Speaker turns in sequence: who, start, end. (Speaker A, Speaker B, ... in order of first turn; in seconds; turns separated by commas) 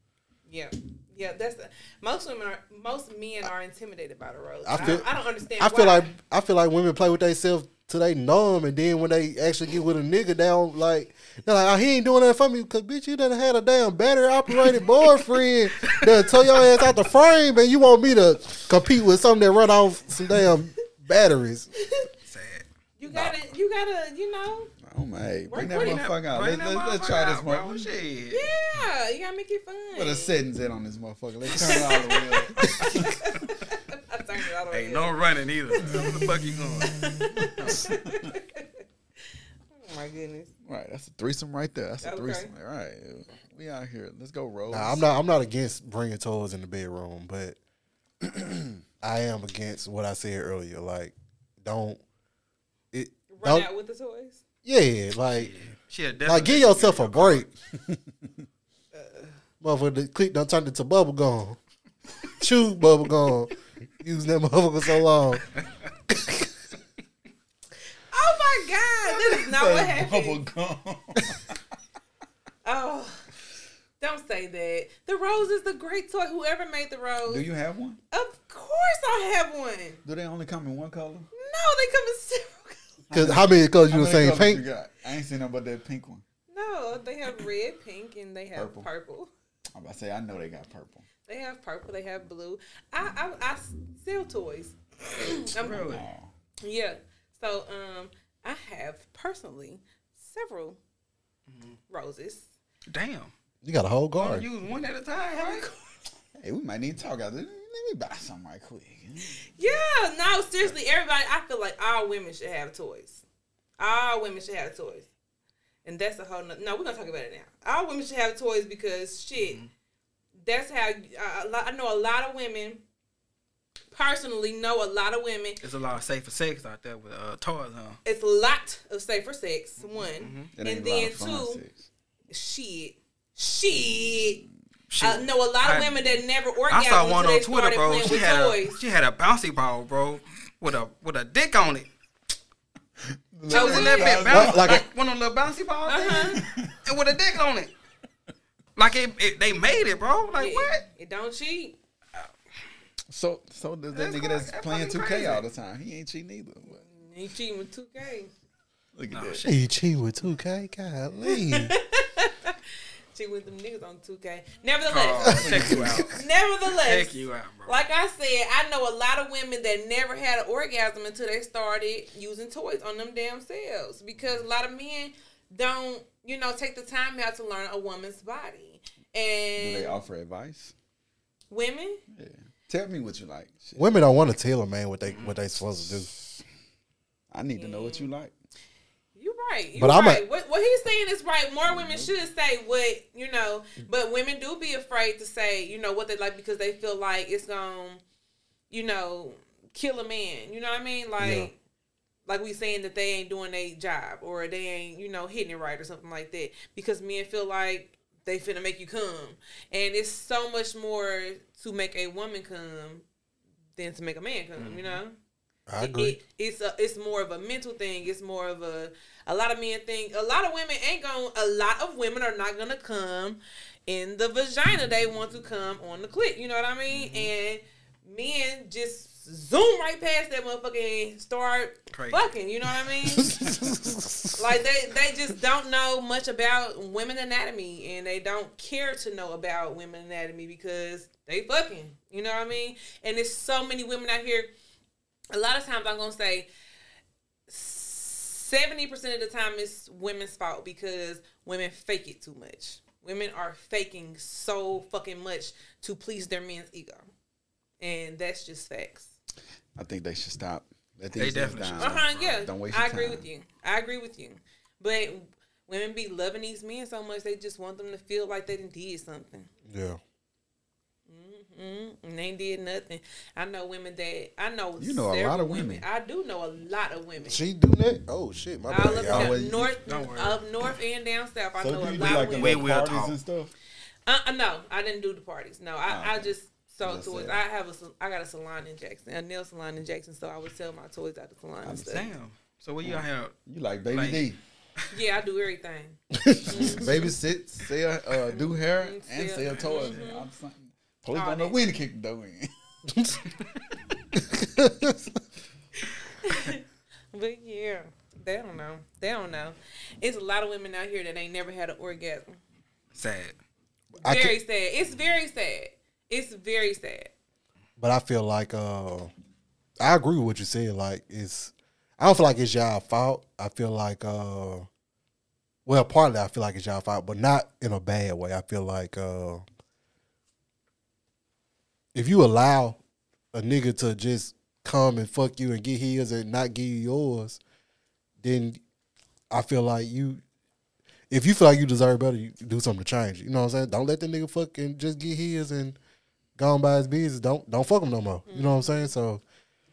Speaker A: 0.5-6.1, Speaker B: 4.6-21.7, Speaker C: 15.8-16.6, Speaker C: 22.2-22.6, Speaker A: 23.0-24.7, Speaker D: 24.8-27.9, Speaker A: 25.5-26.0, Speaker C: 25.5-28.5, Speaker A: 28.3-30.4, Speaker D: 29.9-33.3, Speaker A: 31.5-35.2, Speaker C: 31.7-33.0, Speaker C: 34.7-37.9, Speaker A: 35.8-36.2, Speaker D: 36.8-38.3, Speaker A: 37.0-38.8, Speaker A: 39.7-40.5, Speaker D: 40.6-45.0, Speaker A: 42.0-42.5, Speaker B: 44.7-47.6, Speaker B: 49.0-52.0, Speaker B: 52.9-53.7, Speaker A: 53.3-54.4, Speaker B: 54.6-55.5, Speaker C: 55.3-57.5, Speaker B: 56.2-57.5, Speaker A: 58.9-59.3, Speaker B: 59.6-61.6, Speaker B: 62.4-65.5, Speaker B: 66.1-66.4, Speaker A: 68.1-70.4, Speaker D: 69.2-71.5, Speaker A: 72.6-73.2, Speaker A: 74.0-77.4, Speaker D: 77.2-78.0, Speaker A: 78.1-80.0, Speaker D: 80.0-81.3, Speaker A: 81.3-83.0, Speaker D: 83.1-86.2, Speaker B: 83.1-84.6, Speaker A: 86.5-89.3, Speaker D: 88.5-88.9, Speaker D: 89.7-91.0, Speaker A: 91.2-95.9, Speaker C: 95.5-96.1, Speaker D: 95.6-96.3, Speaker A: 96.6-100.8, Speaker C: 101.5-101.8, Speaker A: 101.9-102.5, Speaker C: 102.9-103.3, Speaker B: 103.6-104.5, Speaker C: 104.1-105.7, Speaker A: 105.3-105.8, Speaker D: 106.4-109.4, Speaker A: 109.4-113.2, Speaker A: 113.8-115.1, Speaker A: 115.8-119.6, Speaker C: 119.4-119.7, Speaker A: 120.4-122.8, Speaker A: 123.9-125.6, Speaker C: 125.6-128.0, Speaker A: 128.0-131.6, Speaker C: 129.9-130.5, Speaker D: 130.5-131.9, Speaker A: 132.3-134.4, Speaker C: 134.9-136.1, Speaker A: 135.0-138.8, Speaker C: 136.7-141.9, Speaker D: 143.3-144.8, Speaker C: 143.5-147.7, Speaker A: 143.5-144.3, Speaker B: 144.2-144.8, Speaker A: 145.9-146.4, Speaker D: 146.3-146.7, Speaker C: 148.8-150.8, Speaker A: 150.3-151.8, Speaker D: 153.1-156.8, Speaker C: 153.9-155.4, Speaker A: 156.7-158.3, Speaker D: 158.9-159.4, Speaker C: 159.1-159.6, Speaker B: 159.4-161.7, Speaker A: 161.2-162.6, Speaker A: 163.1-180.0, Speaker C: 164.9-167.8, Speaker B: 165.2-166.0, Speaker D: 165.6-165.9, Speaker D: 179.6-180.7, Speaker A: 181.5-182.0, Speaker D: 182.1-184.0, Speaker B: 183.8-186.1, Speaker C: 185.1-185.3, Speaker D: 185.7-186.4, Speaker D: 187.3-188.3, Speaker A: 187.5-188.1, Speaker A: 189.2-198.0, Speaker B: 189.8-190.2, Speaker D: 191.7-192.1, Speaker A: 198.7-201.5, Speaker B: 201.2-201.5, Speaker A: 202.2-213.1, Speaker A: 213.8-215.2, Speaker C: 214.6-215.0, Speaker B: 215.7-216.2, Speaker A: 215.8-233.5, Speaker C: 226.9-227.3, Speaker C: 231.9-232.2, Speaker B: 233.1-234.3, Speaker A: 234.3-244.5, Speaker A: 245.3-246.5, Speaker A: 247.5-257.0, Speaker A: 257.8-259.1, Speaker D: 259.8-263.2, Speaker C: 261.1-262.2, Speaker A: 261.8-269.5, Speaker B: 269.7-270.0, Speaker A: 271.1-277.4, Speaker D: 274.8-275.8, Speaker B: 277.2-279.3, Speaker A: 278.7-282.7, Speaker D: 279.0-279.8, Speaker C: 279.9-280.4, Speaker D: 281.6-283.5, Speaker C: 282.1-283.2, Speaker A: 284.1-292.1, Speaker D: 285.9-287.4, Speaker D: 291.6-292.1, Speaker C: 291.8-293.3, Speaker D: 292.8-294.4, Speaker C: 293.9-294.9, Speaker A: 294.9-296.9, Speaker B: 296.2-296.9, Speaker D: 296.5-302.5, Speaker C: 296.5-296.8, Speaker A: 298.3-300.2, Speaker A: 301.1-301.6, Speaker B: 304.2-305.0, Speaker A: 306.2-312.3, Speaker C: 312.9-313.4, Speaker B: 313.9-314.4, Speaker A: 314.0-317.1, Speaker B: 317.8-319.1, Speaker B: 319.8-324.7, Speaker B: 325.6-329.4, Speaker B: 331.9-332.8, Speaker B: 333.3-337.4, Speaker B: 338.2-338.6, Speaker B: 339.3-340.2, Speaker B: 341.1-345.8, Speaker B: 346.4-349.2, Speaker A: 348.3-348.9